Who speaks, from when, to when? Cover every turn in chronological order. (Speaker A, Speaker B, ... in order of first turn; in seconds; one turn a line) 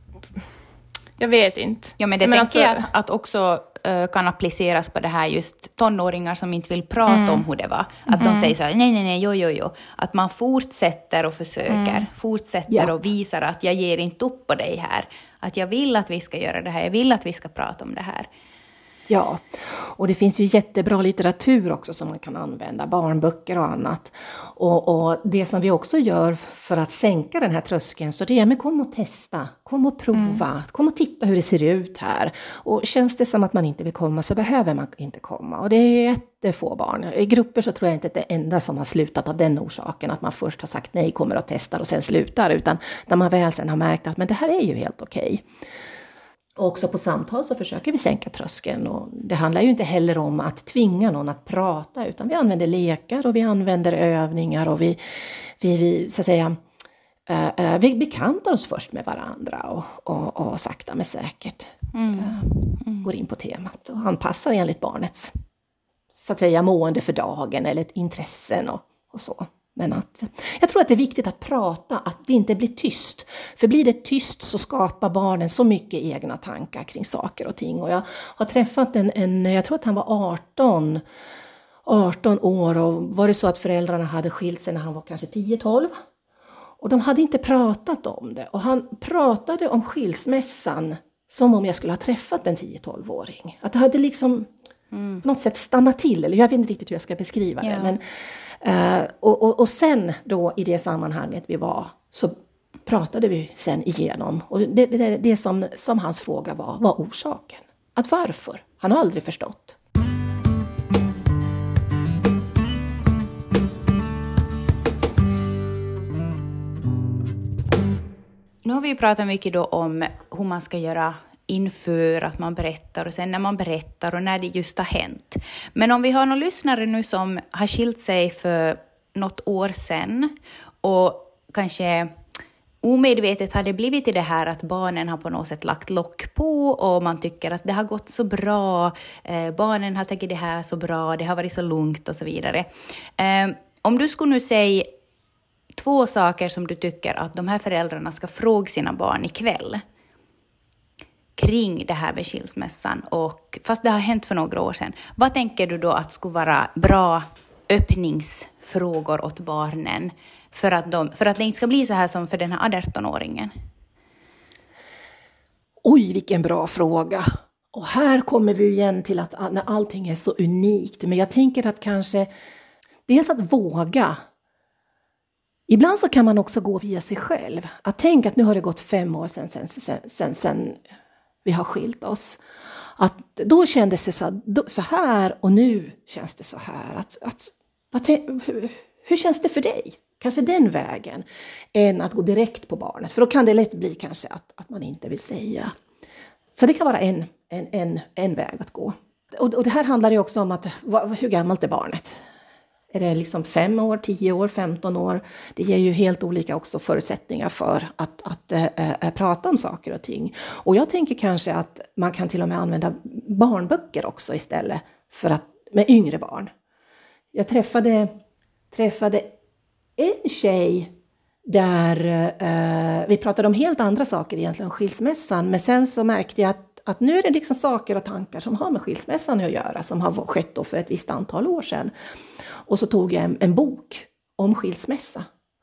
Speaker A: 1.2-2.9
Speaker B: 2.0-18.3
Speaker A: 7.1-7.5
Speaker A: 8.1-8.5
Speaker A: 11.7-12.1
Speaker C: 19.1-45.5
Speaker A: 30.1-30.4
Speaker C: 46.6-56.6
Speaker C: 57.3-65.3
Speaker B: 61.9-63.1
Speaker C: 66.1-81.0
Speaker C: 81.8-86.0
Speaker C: 86.8-94.5
Speaker B: 94.9-95.2
Speaker C: 95.2-98.0
Speaker B: 97.6-97.9
Speaker C: 98.6-109.8
Speaker B: 118.7-132.2
Speaker B: 132.8-144.9
Speaker B: 145.8-149.8
Speaker B: 151.4-163.5
Speaker C: 165.8-172.3
Speaker C: 173.1-174.2
Speaker C: 175.7-180.8
Speaker C: 181.4-182.4
Speaker C: 183.0-195.7
Speaker C: 196.6-202.2
Speaker C: 202.9-216.5
Speaker C: 217.3-218.1
Speaker C: 218.7-219.3
Speaker C: 220.0-220.9
Speaker C: 221.5-231.9
Speaker C: 232.7-235.2